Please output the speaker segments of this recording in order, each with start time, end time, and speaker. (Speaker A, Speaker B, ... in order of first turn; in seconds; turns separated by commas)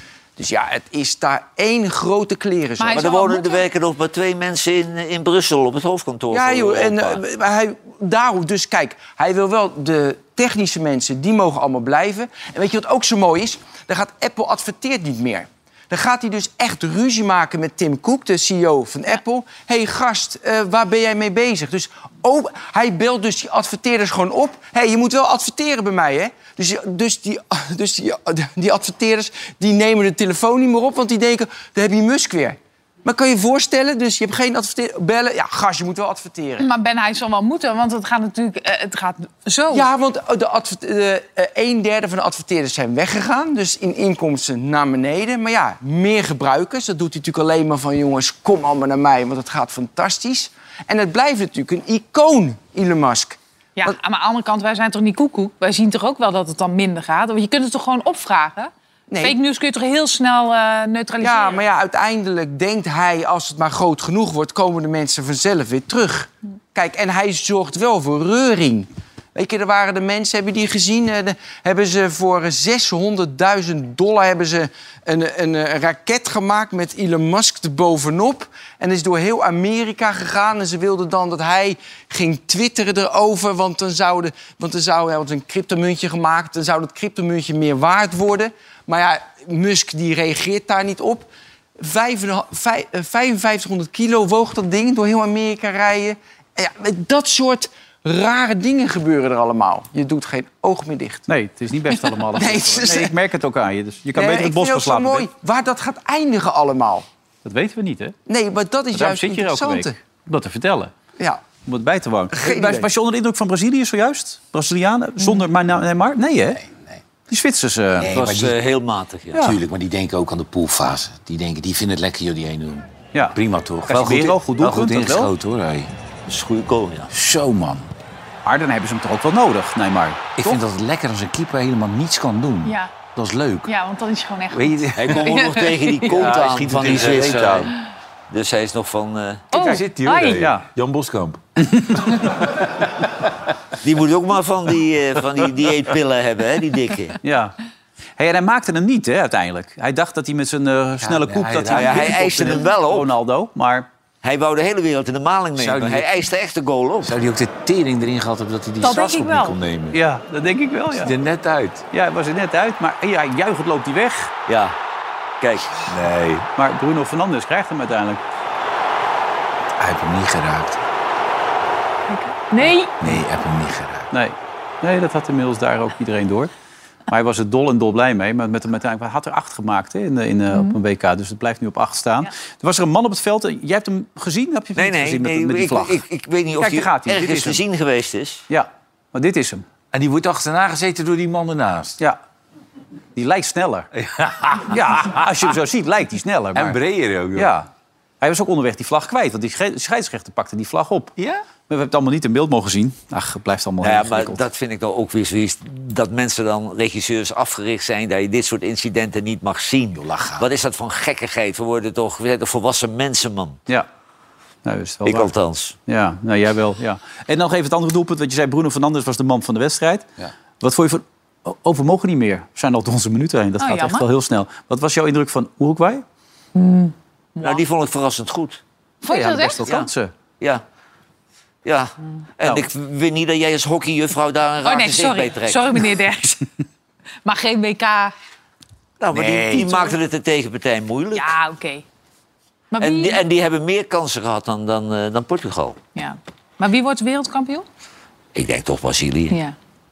Speaker A: 0.4-3.1, Speaker B: 2.8-3.6, Speaker C: 3.0-7.2, Speaker A: 6.3-36.6, Speaker B: 36.6-39.9, Speaker A: 39.7-54.0, Speaker B: 53.8-61.6, Speaker A: 59.1-59.4, Speaker A: 61.2-101.3, Speaker D: 101.3-105.3, Speaker A: 102.2-103.1, Speaker A: 104.1-107.0, Speaker D: 107.5-108.1, Speaker A: 108.3-109.9, Speaker D: 108.9-110.9, Speaker D: 111.7-116.6, Speaker A: 112.3-112.9, Speaker E: 116.6-117.0, Speaker D: 117.3-118.1, Speaker E: 118.0-118.6, Speaker C: 118.1-119.5, Speaker E: 119.4-125.9, Speaker D: 123.1-125.3, Speaker C: 126.3-127.1, Speaker E: 127.1-127.9, Speaker D: 128.4-130.6, Speaker E: 130.4-133.7, Speaker B: 132.6-132.9, Speaker B: 133.7-136.3, Speaker E: 134.5-135.2, Speaker C: 134.9-137.7, Speaker E: 136.1-137.7, Speaker C: 138.3-139.5, Speaker B: 139.5-140.5, Speaker E: 139.5-142.7, Speaker D: 140.4-140.7, Speaker D: 141.6-142.2, Speaker C: 143.8-147.2, Speaker D: 147.2-147.6, Speaker D: 148.2-153.9, Speaker E: 151.0-152.6, Speaker C: 151.7-153.1, Speaker C: 154.2-157.2, Speaker E: 155.6-156.1, Speaker E: 157.0-160.0, Speaker B: 158.8-159.6, Speaker D: 159.9-161.1, Speaker E: 160.9-161.8, Speaker D: 161.9-164.3, Speaker C: 164.5-164.7, Speaker C: 165.4-165.8, Speaker E: 165.9-166.4, Speaker D: 166.6-168.2, Speaker E: 169.8-170.8, Speaker B: 172.1-173.1, Speaker E: 173.0-174.1, Speaker D: 174.1-176.5, Speaker D: 177.1-186.0, Speaker B: 180.5-180.8, Speaker C: 184.8-188.4, Speaker D: 186.6-187.6, Speaker D: 188.5-189.6, Speaker E: 189.9-192.0, Speaker D: 193.2-193.9, Speaker E: 193.9-195.2, Speaker D: 194.7-196.8, Speaker E: 196.6-197.5, Speaker D: 197.4-197.7, Speaker D: 198.2-201.1, Speaker E: 201.2-201.4, Speaker D: 201.7-204.4, Speaker C: 203.8-213.6, Speaker E: 209.9-210.5, Speaker D: 214.6-215.3, Speaker C: 215.1-215.7, Speaker D: 215.9-220.1, Speaker D: 220.6-226.0, Speaker B: 223.6-224.1, Speaker B: 226.6-227.7, Speaker C: 227.4-228.6, Speaker B: 229.0-229.8, Speaker D: 229.1-230.1, Speaker C: 231.6-235.7, Speaker B: 234.6-236.5, Speaker B: 237.2-238.1, Speaker C: 239.0-241.4, Speaker E: 239.1-239.7, Speaker B: 239.5-239.9, Speaker B: 241.1-241.8, Speaker B: 242.7-243.2, Speaker C: 242.8-245.8, Speaker B: 245.9-247.7, Speaker C: 248.3-249.4, Speaker B: 249.3-249.6